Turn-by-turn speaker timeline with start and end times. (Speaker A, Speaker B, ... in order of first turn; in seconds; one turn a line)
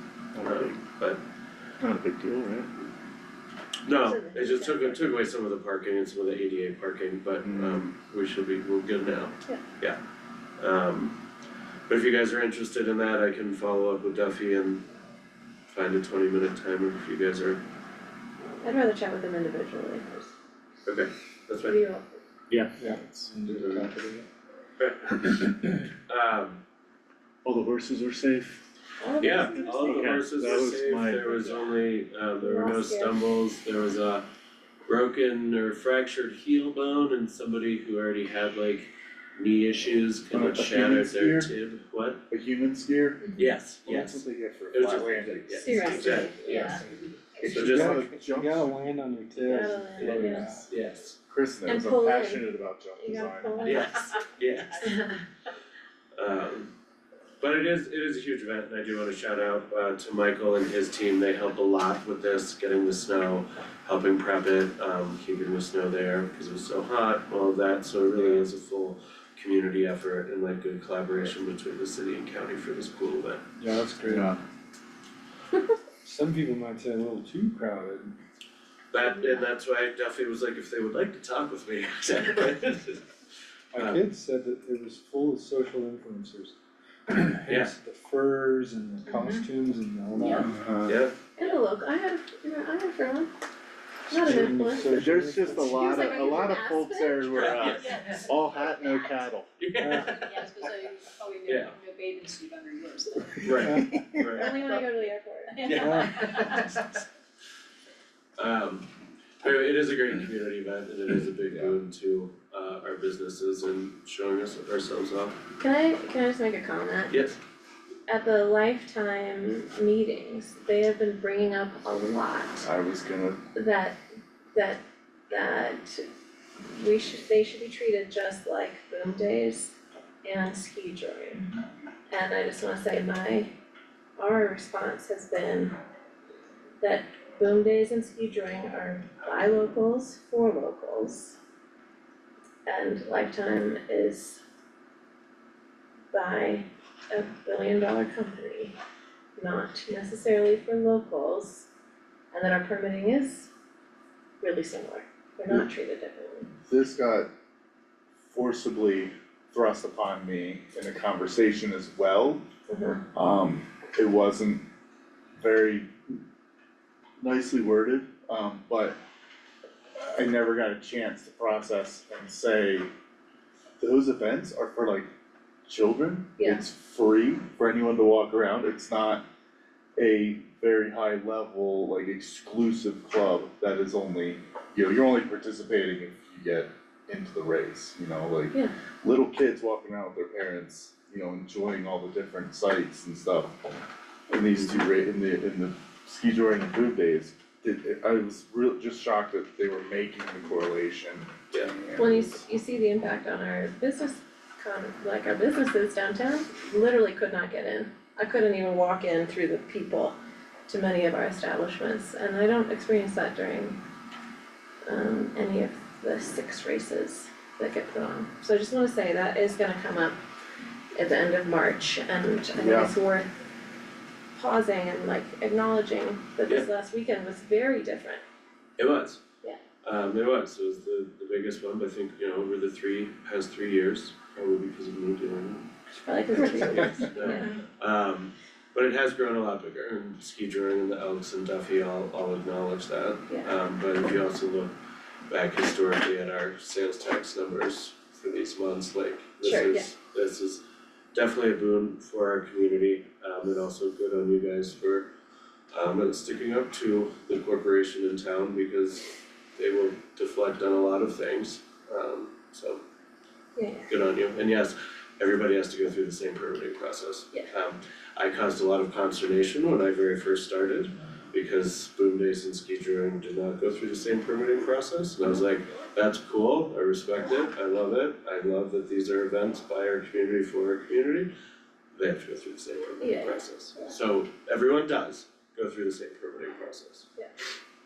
Speaker A: 0.3-0.8
Speaker B: 0.4-1.2
Speaker A: 1.8-2.7
Speaker B: 3.8-10.0
Speaker C: 4.0-5.0
Speaker A: 7.4-7.9
Speaker B: 10.6-11.2
Speaker B: 11.9-14.8
Speaker B: 15.7-17.6
Speaker C: 18.6-20.3
Speaker B: 20.9-21.8
Speaker C: 21.6-22.2
Speaker A: 22.5-23.3
Speaker D: 22.8-24.3
Speaker B: 23.5-23.9
Speaker B: 24.8-25.4
Speaker B: 26.1-26.6
Speaker A: 27.4-28.6
Speaker C: 29.0-30.1
Speaker B: 29.2-34.2
Speaker A: 29.6-31.6
Speaker C: 32.4-33.2
Speaker B: 34.9-42.2
Speaker A: 40.3-41.5
Speaker A: 42.3-43.3
Speaker B: 43.4-48.0
Speaker A: 43.8-46.6
Speaker C: 45.5-46.8
Speaker E: 46.5-46.8
Speaker A: 47.4-48.8
Speaker D: 47.6-50.7
Speaker C: 49.4-50.6
Speaker B: 50.0-51.2
Speaker A: 51.3-53.8
Speaker C: 51.6-54.1
Speaker B: 53.6-55.0
Speaker C: 54.8-55.2
Speaker B: 56.1-56.7
Speaker B: 57.4-73.4
Speaker D: 68.2-68.4
Speaker D: 73.6-74.4
Speaker A: 74.0-74.4
Speaker D: 76.0-78.2
Speaker B: 78.9-83.1
Speaker D: 83.7-86.6
Speaker B: 83.8-84.0
Speaker D: 87.1-90.5
Speaker B: 87.5-87.7
Speaker C: 89.1-89.4
Speaker E: 90.2-90.4
Speaker A: 90.4-91.0
Speaker B: 90.8-91.1
Speaker C: 91.4-93.3
Speaker D: 94.1-95.7
Speaker C: 94.1-97.5
Speaker A: 94.8-99.5
Speaker B: 97.3-98.3
Speaker E: 97.7-99.3
Speaker B: 99.6-100.7
Speaker D: 99.8-100.2
Speaker E: 100.0-103.6
Speaker B: 101.5-101.7
Speaker B: 103.4-104.7
Speaker D: 103.5-104.4
Speaker C: 104.3-105.7
Speaker E: 105.5-106.8
Speaker B: 105.6-106.9
Speaker D: 105.7-106.2
Speaker B: 108.4-108.9
Speaker B: 109.4-115.4
Speaker C: 115.6-117.1
Speaker B: 117.1-117.4
Speaker C: 118.1-122.7
Speaker A: 122.6-123.4
Speaker C: 123.5-124.0
Speaker C: 124.5-126.0
Speaker C: 126.7-131.5
Speaker C: 132.1-133.5
Speaker C: 134.2-135.7
Speaker C: 136.8-141.4
Speaker C: 142.7-144.4
Speaker C: 146.1-148.7
Speaker C: 149.4-151.7
Speaker C: 152.3-153.5
Speaker C: 154.4-156.5
Speaker A: 156.7-157.3
Speaker A: 158.2-162.4
Speaker C: 162.7-163.0
Speaker A: 163.1-164.6
Speaker A: 165.4-166.2
Speaker A: 167.2-168.9
Speaker A: 170.0-172.9
Speaker A: 173.8-175.1
Speaker A: 175.7-179.2
Speaker A: 180.0-193.5
Speaker A: 194.3-202.4
Speaker C: 202.0-210.2
Speaker C: 210.7-213.8
Speaker C: 214.8-220.2
Speaker C: 220.9-223.3
Speaker A: 222.6-222.9
Speaker C: 224.3-228.2
Speaker B: 228.8-229.2
Speaker B: 229.8-235.7
Speaker C: 235.9-237.5
Speaker B: 236.4-244.7
Speaker B: 245.3-255.1
Speaker C: 249.4-249.8
Speaker B: 255.7-262.8
Speaker C: 263.6-263.9
Speaker B: 263.9-281.3
Speaker B: 281.9-287.1
Speaker C: 283.0-283.9